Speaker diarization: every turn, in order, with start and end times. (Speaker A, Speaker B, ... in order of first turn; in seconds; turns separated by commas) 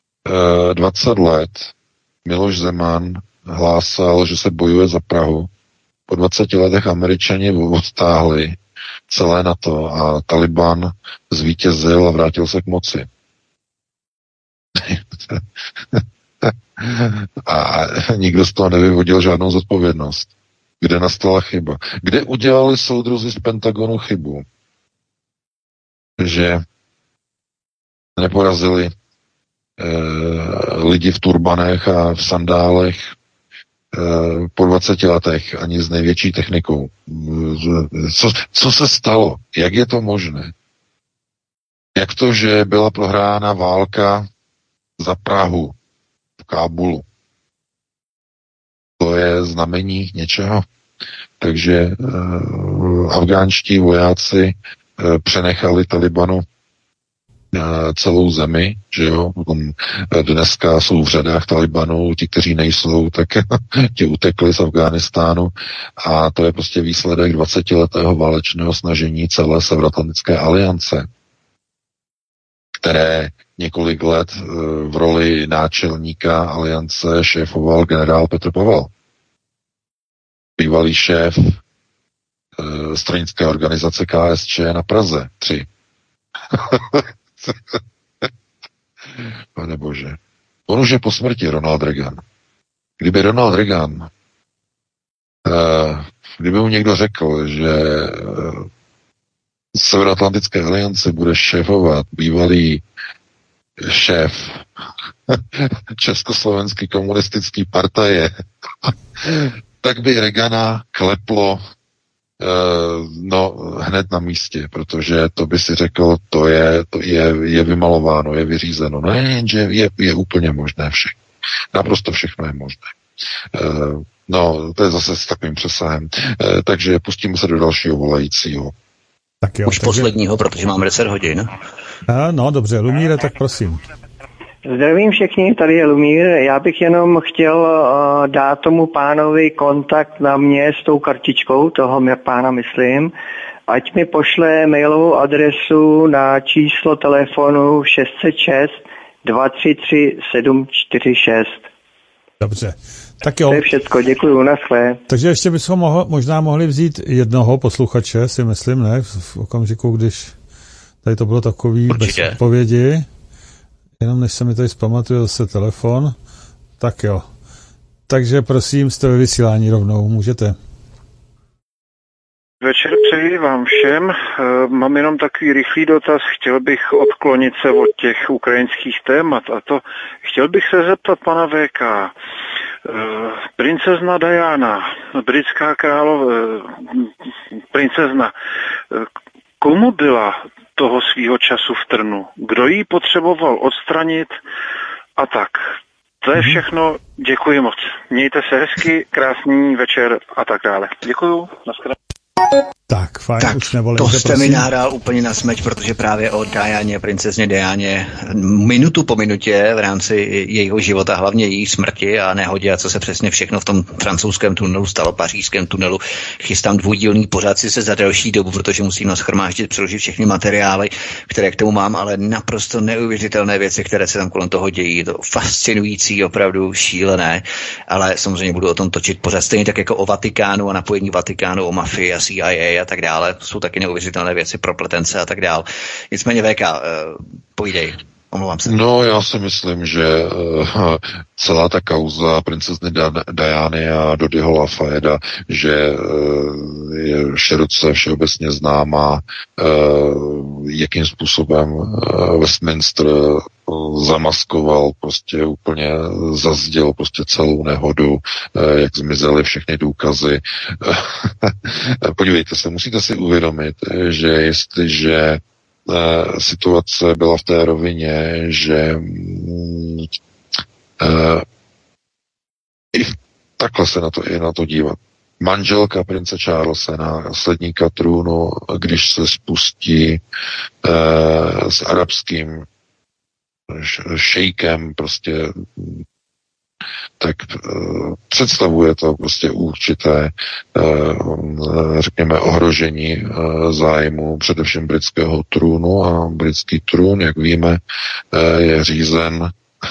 Speaker A: 0.2-1.7, Speaker A: 2.2-5.5, Speaker A: 6.1-8.6, Speaker A: 9.1-13.1, Speaker A: 14.8-15.4, Speaker A: 15.9-20.3, Speaker A: 20.8-24.4, Speaker A: 26.2-26.6, Speaker A: 28.2-28.9, Speaker A: 29.8-33.1, Speaker A: 33.9-40.5, Speaker A: 42.0-44.3, Speaker A: 45.0-45.7, Speaker A: 46.4-47.0, Speaker A: 49.0-50.6, Speaker A: 51.4-56.4, Speaker A: 57.5-71.1, Speaker A: 72.8-78.9, Speaker A: 80.6-81.6, Speaker A: 82.6-85.7, Speaker A: 86.5-88.3, Speaker A: 89.5-92.2, Speaker A: 93.0-94.1, Speaker A: 95.4-98.7, Speaker A: 99.7-102.8, Speaker A: 103.8-104.7, Speaker A: 105.3-108.3, Speaker A: 108.8-111.6, Speaker A: 112.4-121.2, Speaker A: 121.7-122.9, Speaker A: 123.5-128.7, Speaker B: 129.4-130.1, Speaker C: 129.7-131.5, Speaker B: 132.1-133.8, Speaker D: 134.7-143.1, Speaker D: 143.7-151.6, Speaker B: 152.4-153.7, Speaker D: 153.5-155.0, Speaker B: 155.1-160.3, Speaker B: 161.0-163.1, Speaker C: 161.9-162.4, Speaker B: 164.0-166.2, Speaker B: 166.8-167.3, Speaker B: 168.1-170.6, Speaker E: 172.6-182.1, Speaker E: 182.9-187.1, Speaker E: 187.7-188.3, Speaker E: 189.6-194.4, Speaker E: 195.2-201.9, Speaker B: 202.9-204.7, Speaker C: 203.4-238.8, Speaker A: 238.7-270.1, Speaker A: 271.0-271.4, Speaker A: 272.9-280.2, Speaker A: 280.8-282.6, Speaker A: 283.7-286.0, Speaker A: 287.2-297.8, Speaker A: 298.3-299.5